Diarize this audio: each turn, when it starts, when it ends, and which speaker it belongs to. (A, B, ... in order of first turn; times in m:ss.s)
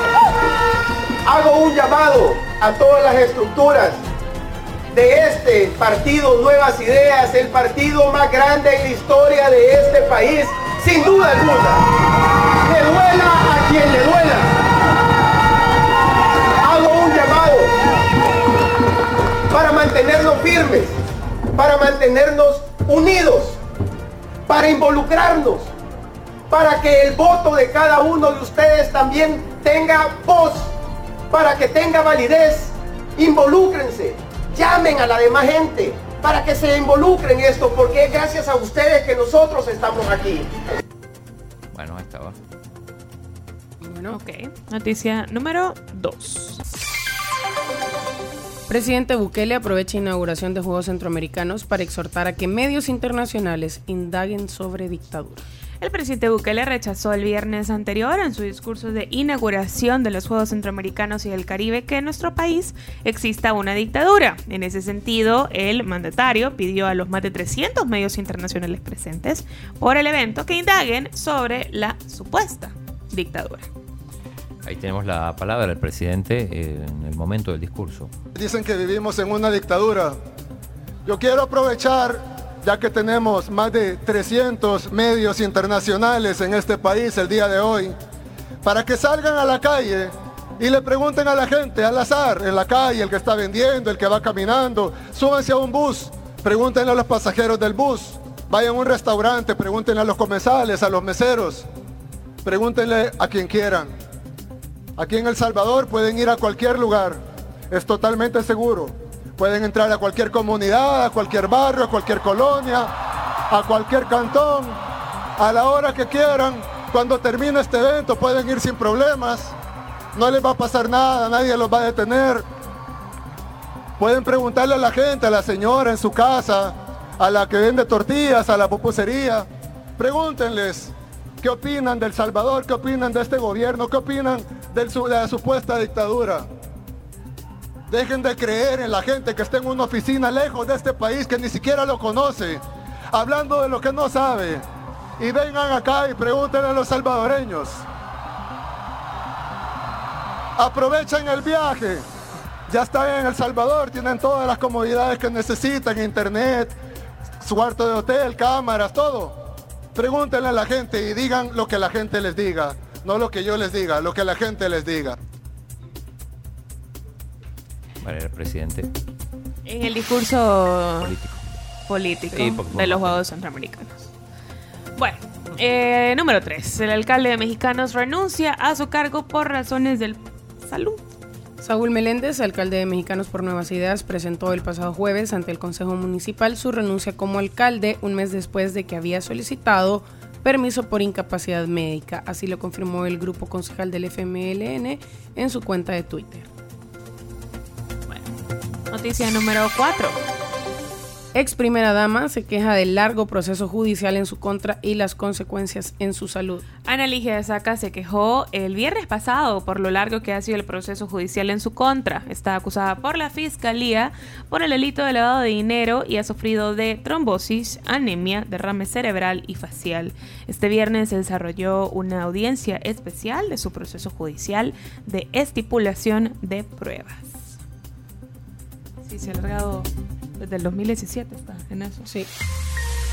0:01.2-0:04.0 A
0:04.9-0:11.9 A
0:12.6-0:14.6 A
0:16.6-0:17.7 A
0:19.5-0:21.0 A
0:21.5-0:23.6 A
0:24.5-0:25.7 A
0:26.5-0:30.7 A
0:31.3-0:40.5 A
0:41.7-0:42.4 B
0:43.8-0:44.2 C
0:44.1-0:46.6 D
0:48.7-0:55.4 C
0:55.8-1:13.7 D
1:14.6-1:18.1 B
1:18.3-1:20.1 E
1:21.0-1:28.0 E
1:28.6-1:41.6 E
1:42.4-1:43.9 E
1:45.0-1:47.2 E
1:47.7-1:52.9 E
1:53.5-1:54.8 E
1:55.4-1:59.5 E
2:00.1-2:02.4 E
2:04.0-2:09.4 E
2:10.0-2:16.4 E
2:17.9-2:22.6 E
2:23.1-2:24.6 E
2:25.2-2:27.8 E
2:30.6-2:32.0 E
2:32.7-2:36.7 E
2:37.4-2:39.4 E
2:39.9-2:45.2 E
2:48.0-2:48.9 B
2:49.6-2:51.1 D
2:51.0-2:51.4 B
2:51.9-2:54.1 D
2:52.3-2:53.2 B
2:55.0-3:01.0 D
3:01.6-3:16.4 C
3:18.1-3:18.3 D
3:18.9-3:20.2 D
3:21.3-3:26.6 C
3:26.8-3:47.6 D
3:49.0-3:52.1 D